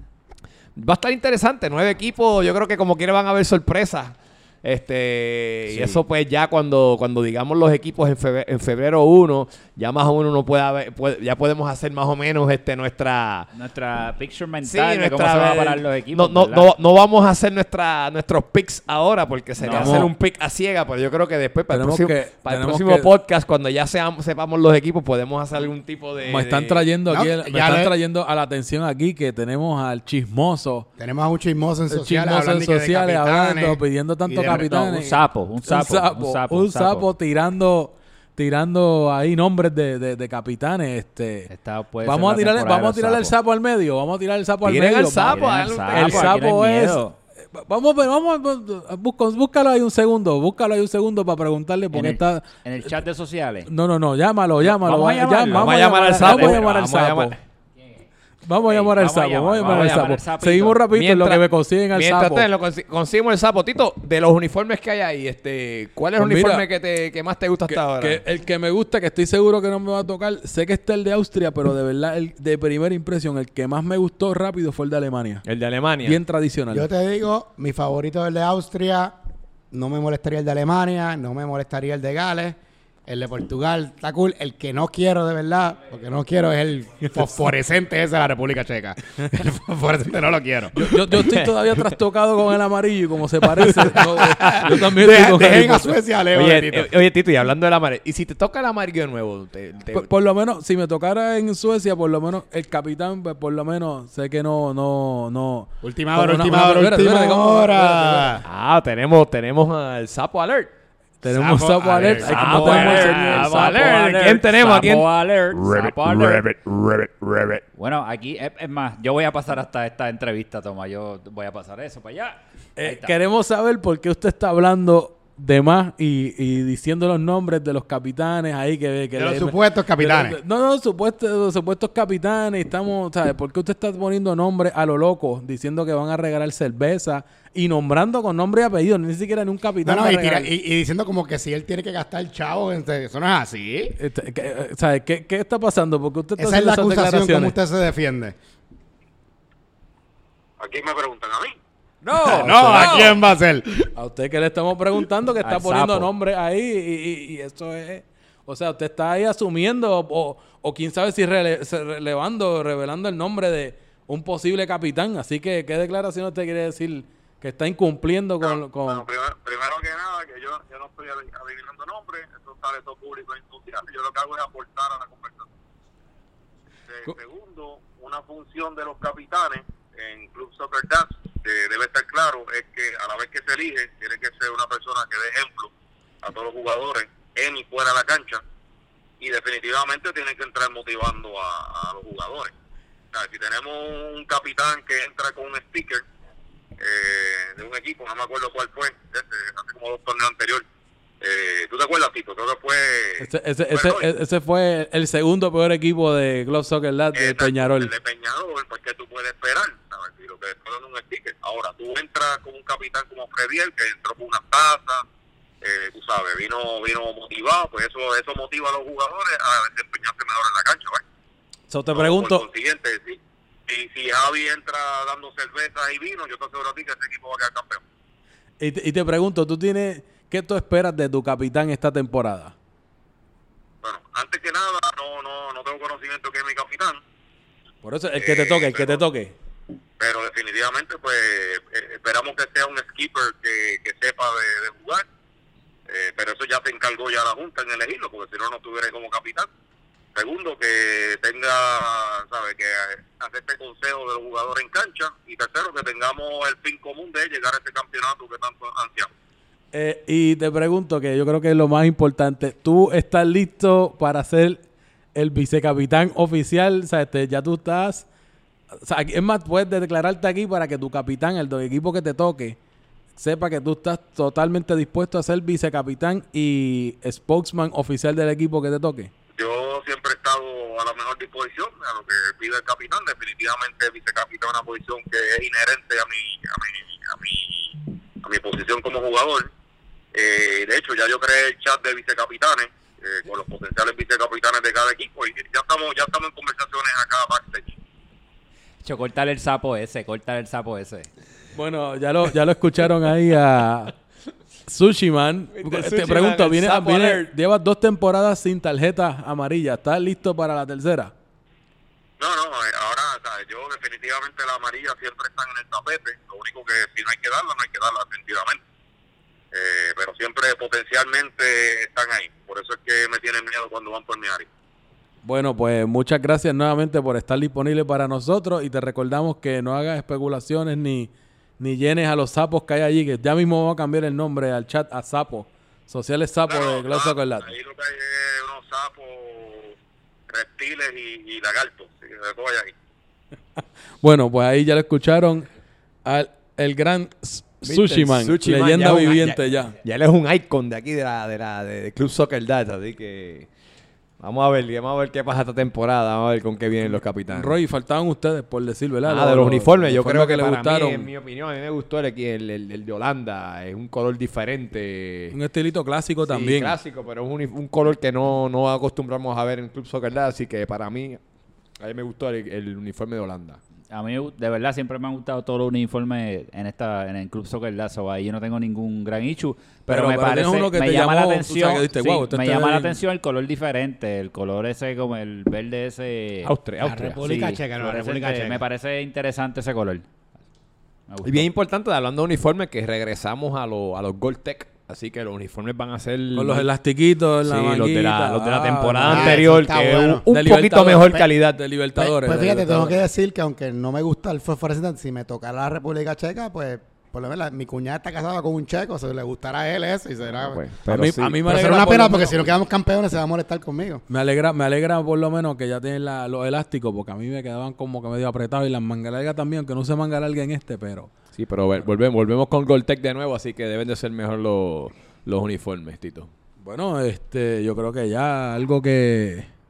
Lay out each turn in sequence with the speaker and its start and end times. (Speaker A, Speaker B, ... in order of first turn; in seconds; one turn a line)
Speaker A: 0.8-13.5
Speaker B: 5.7-6.0
Speaker B: 13.5-16.7
Speaker A: 14.6-26.9
Speaker B: 19.6-20.1
Speaker C: 19.7-20.1
Speaker C: 21.7-23.1
Speaker C: 26.2-30.9
Speaker D: 27.1-27.9
Speaker D: 31.0-34.8
Speaker C: 31.9-41.5
Speaker B: 34.5-37.1
Speaker B: 41.5-43.4
Speaker C: 42.0-47.0
Speaker A: 44.6-46.4
Speaker B: 45.3-47.2
Speaker C: 47.5-52.9
Speaker B: 51.9-53.7
Speaker C: 53.7-57.4
Speaker B: 54.6-56.6
Speaker A: 55.5-57.4
Speaker C: 58.4-62.5
Speaker B: 58.6-60.8
Speaker A: 59.6-60.1
Speaker A: 60.9-68.2
Speaker C: 66.2-66.7
Speaker C: 67.7-75.4
Speaker A: 75.4-76.2
Speaker C: 76.0-76.9
Speaker D: 76.7-79.2
Speaker D: 79.7-91.0
Speaker C: 90.7-96.0
Speaker A: 93.6-94.7
Speaker D: 93.9-97.0
Speaker A: 95.3-95.7
Speaker A: 96.3-100.1
Speaker C: 99.9-108.5
Speaker D: 105.8-108.4
Speaker A: 108.5-110.7
Speaker C: 111.2-114.0
Speaker D: 111.3-113.0
Speaker A: 112.0-117.6
Speaker B: 112.2-116.5
Speaker B: 117.8-123.2
Speaker C: 122.8-140.5
Speaker D: 129.2-130.4
Speaker D: 139.8-144.0
Speaker C: 144.0-147.6
Speaker D: 146.4-148.4
Speaker E: 150.6-151.6
Speaker C: 152.1-153.2
Speaker A: 152.1-153.2
Speaker B: 152.2-153.1
Speaker D: 152.2-153.9
Speaker C: 153.9-169.0
Speaker B: 155.4-156.1
Speaker E: 168.4-175.5
Speaker E: 176.9-188.4
Speaker E: 189.2-192.5
Speaker E: 193.1-196.0
Speaker E: 196.8-200.7
Speaker E: 201.2-204.1
Speaker C: 203.2-207.9
Speaker E: 207.1-215.0
Speaker E: 215.6-221.0
Speaker C: 221.7-222.4
Speaker E: 221.9-227.8
Speaker C: 228.6-232.6
Speaker E: 233.8-237.0
Speaker C: 237.8-239.3
Speaker E: 238.2-239.0
Speaker E: 240.0-245.1
Speaker E: 245.9-249.5
Speaker E: 250.2-259.1
Speaker C: 259.7-264.6
Speaker C: 265.1-268.1
Speaker C: 268.8-272.6
Speaker C: 273.2-279.1
Speaker E: 279.4-289.5
Speaker E: 290.1-297.8
Speaker B: 298.8-301.1
Speaker C: 301.6-303.9
Speaker C: 304.7-311.1
Speaker A: 305.5-307.3
Speaker E: 312.2-318.6
Speaker E: 319.5-324.5
Speaker C: 325.2-337.5
Speaker E: 336.5-339.7
Speaker E: 340.3-342.7
Speaker C: 343.6-345.5
Speaker C: 346.1-349.8
Speaker A: 347.7-353.5
Speaker A: 354.2-357.6
Speaker C: 356.9-361.1
Speaker A: 359.1-365.4
Speaker C: 365.3-366.8
Speaker A: 366.2-371.2
Speaker A: 371.8-373.6
Speaker B: 373.9-390.1
Speaker C: 379.9-383.0
Speaker A: 386.4-387.6
Speaker D: 386.8-388.6
Speaker B: 391.1-391.5
Speaker A: 391.2-396.7
Speaker C: 396.4-399.4
Speaker A: 397.4-401.6
Speaker D: 399.1-400.2
Speaker C: 400.3-403.0
Speaker D: 402.0-414.0
Speaker A: 410.4-411.4
Speaker C: 410.9-412.5
Speaker C: 414.1-421.1
Speaker A: 421.4-426.3
Speaker C: 426.6-429.5